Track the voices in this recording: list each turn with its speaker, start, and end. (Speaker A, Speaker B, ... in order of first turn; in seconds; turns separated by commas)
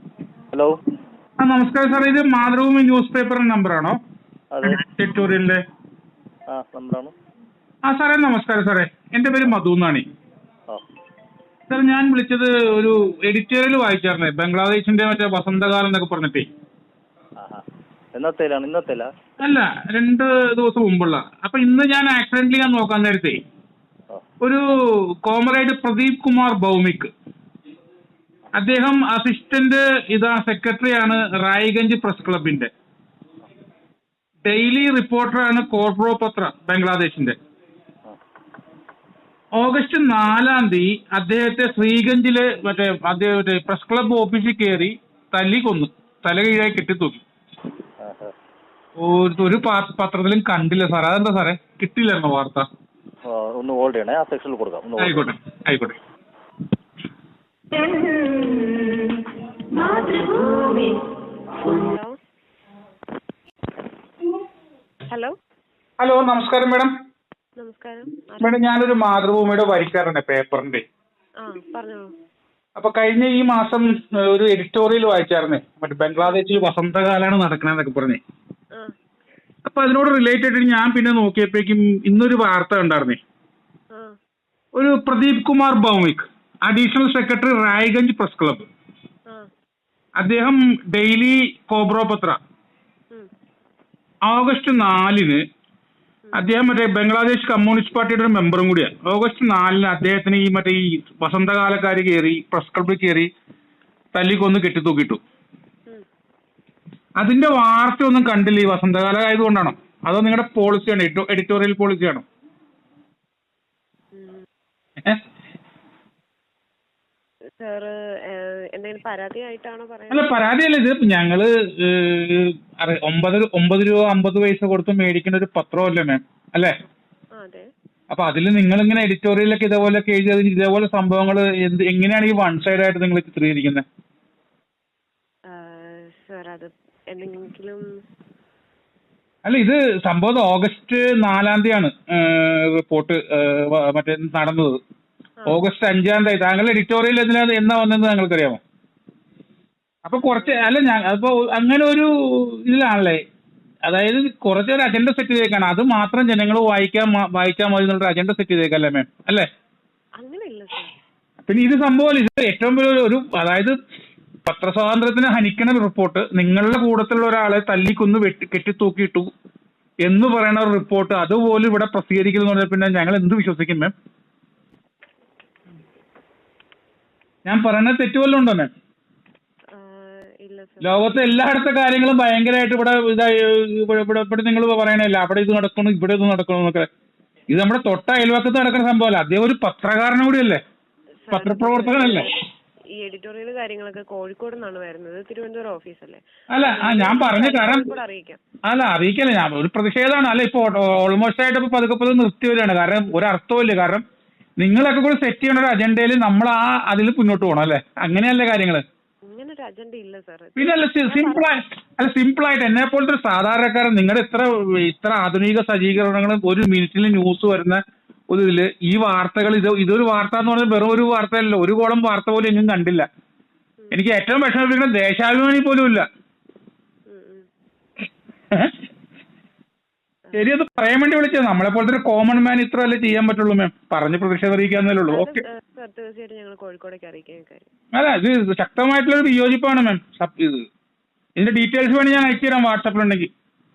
Speaker A: 1.4-4.0, Speaker B: 4.5-4.8, Speaker A: 4.6-5.6, Speaker B: 6.5-7.1, Speaker A: 7.8-10.1, Speaker A: 11.7-16.5, Speaker B: 18.1-19.1, Speaker A: 19.4-23.4, Speaker A: 25.2-27.1, Speaker A: 28.6-32.7, Speaker A: 34.5-37.4, Speaker A: 39.6-47.2, Speaker B: 48.0-48.3, Speaker A: 49.0-52.7, Speaker B: 53.3-55.2, Speaker A: 55.0-56.0, Speaker C: 58.0-58.9, Speaker C: 59.7-61.0, Speaker C: 61.6-62.2, Speaker C: 65.1-65.3, Speaker A: 66.0-66.9, Speaker C: 67.6-68.6, Speaker A: 68.4-70.8, Speaker C: 71.4-72.1, Speaker A: 72.8-78.2, Speaker A: 79.7-83.2, Speaker C: 83.9-84.2, Speaker A: 84.8-88.7, Speaker A: 90.2-92.4, Speaker A: 94.3-95.4, Speaker A: 96.3-103.3, Speaker A: 104.1-105.2, Speaker A: 107.2-112.2, Speaker C: 114.1-114.5, Speaker C: 117.6-120.4, Speaker A: 120.1-126.7, Speaker C: 127.4-127.7, Speaker A: 128.1-133.8, Speaker C: 135.5-137.8, Speaker A: 139.4-144.8, Speaker A: 145.5-148.6, Speaker A: 150.1-153.2, Speaker C: 150.2-150.7, Speaker A: 153.9-159.5, Speaker C: 160.2-160.9, Speaker A: 161.4-163.8, Speaker A: 164.5-169.3, Speaker A: 170.0-173.9, Speaker A: 177.4-178.7, Speaker C: 179.7-181.2, Speaker A: 180.8-186.9, Speaker A: 187.5-190.6, Speaker C: 191.3-192.3, Speaker A: 191.3-192.3, Speaker C: 193.0-198.4, Speaker A: 196.5-198.0, Speaker A: 198.7-204.0, Speaker A: 204.6-208.8, Speaker C: 209.3-211.5, Speaker A: 210.6-223.1, Speaker A: 223.9-226.0, Speaker C: 227.1-227.5, Speaker A: 230.3-235.4, Speaker C: 235.1-237.7, Speaker A: 237.9-240.7, Speaker A: 241.4-243.3